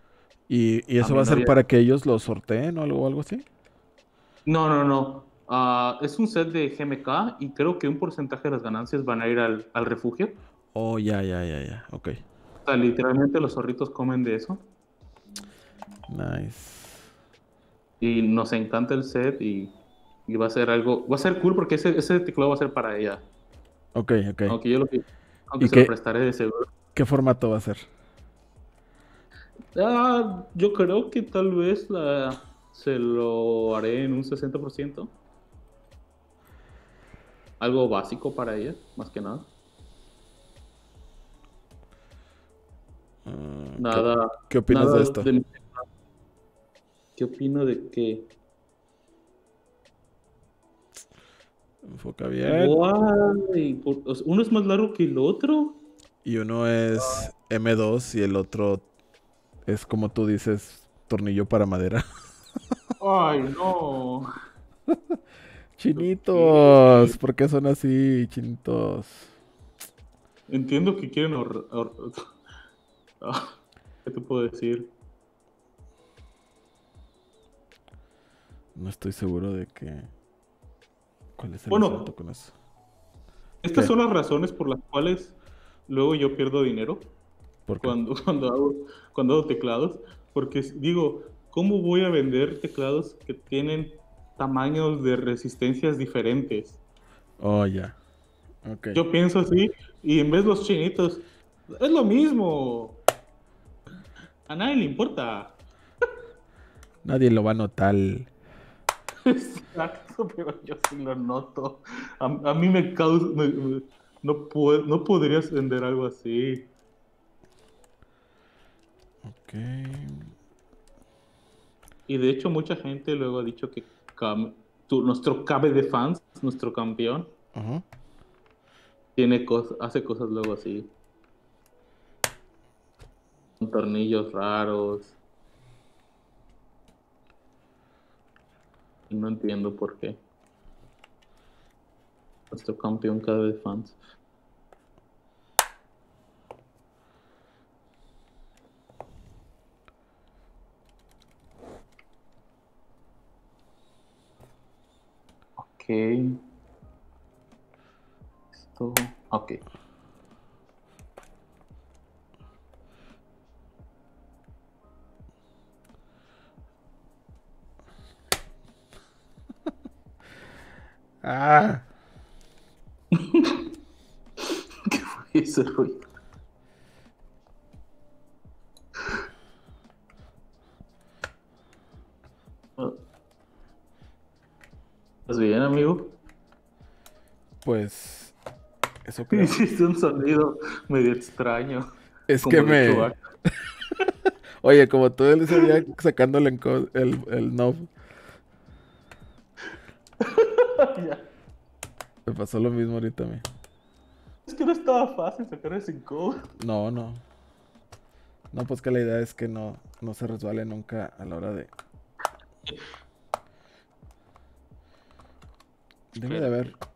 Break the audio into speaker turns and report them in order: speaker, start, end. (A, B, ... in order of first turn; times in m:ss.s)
0:00.5-0:03.4 A
0:01.0-0:01.6 B
0:04.4-0:10.4 B
0:10.7-0:12.2 A
0:12.6-0:14.6 B
0:16.1-0:17.0 A
0:18.0-0:19.8 B
0:20.3-0:23.2 B
0:23.9-0:24.6 A
0:24.5-0:26.7 B
0:25.6-0:25.9 A
0:26.9-0:27.9 A
0:29.7-0:35.1 B
0:37.6-0:39.5 B
0:43.2-0:45.3 A
0:43.8-0:45.8 B
0:47.2-0:48.3 B
0:51.8-0:52.8 A
0:52.4-0:55.8 B
0:56.2-0:58.8 A
0:57.0-0:57.3 B
0:59.6-1:02.0 A
1:03.0-1:04.3 B
1:04.9-1:05.2 A
1:05.8-1:09.3 A
1:05.9-1:07.2 B
1:10.5-1:12.3 B
1:13.2-1:13.5 B
1:14.0-1:14.9 B
1:18.7-1:20.1 A
1:21.4-1:22.5 A
1:21.7-1:22.1 B
1:23.6-1:25.3 B
1:25.9-1:27.1 B
1:27.7-1:28.0 A
1:27.8-1:36.8 B
1:37.4-1:38.0 A
1:38.6-1:39.0 A
1:38.9-1:43.0 B
1:44.5-1:45.6 B
1:47.0-1:48.3 A
1:49.2-1:56.7 B
1:59.2-2:00.3 A
2:02.1-2:07.3 B
2:07.5-2:07.8 A
2:09.2-2:10.9 B
2:13.6-2:15.1 B
2:19.1-2:20.2 B
2:22.5-2:24.0 B
2:35.6-2:36.4 B
2:38.5-2:39.6 B
2:51.2-2:51.8 A
2:53.1-2:53.6 B
2:54.4-2:56.0 B
3:05.3-3:06.1 B
3:07.6-3:08.3 A
3:09.0-3:09.6 A
3:09.3-3:11.8 B
3:12.3-3:17.9 A
3:12.4-3:13.2 B
3:20.2-3:21.2 B
3:22.2-3:23.4 A
3:24.5-3:26.4 B
3:26.6-3:27.2 A
3:28.5-3:31.7 A
3:36.1-3:36.8 A
3:36.2-3:36.7 B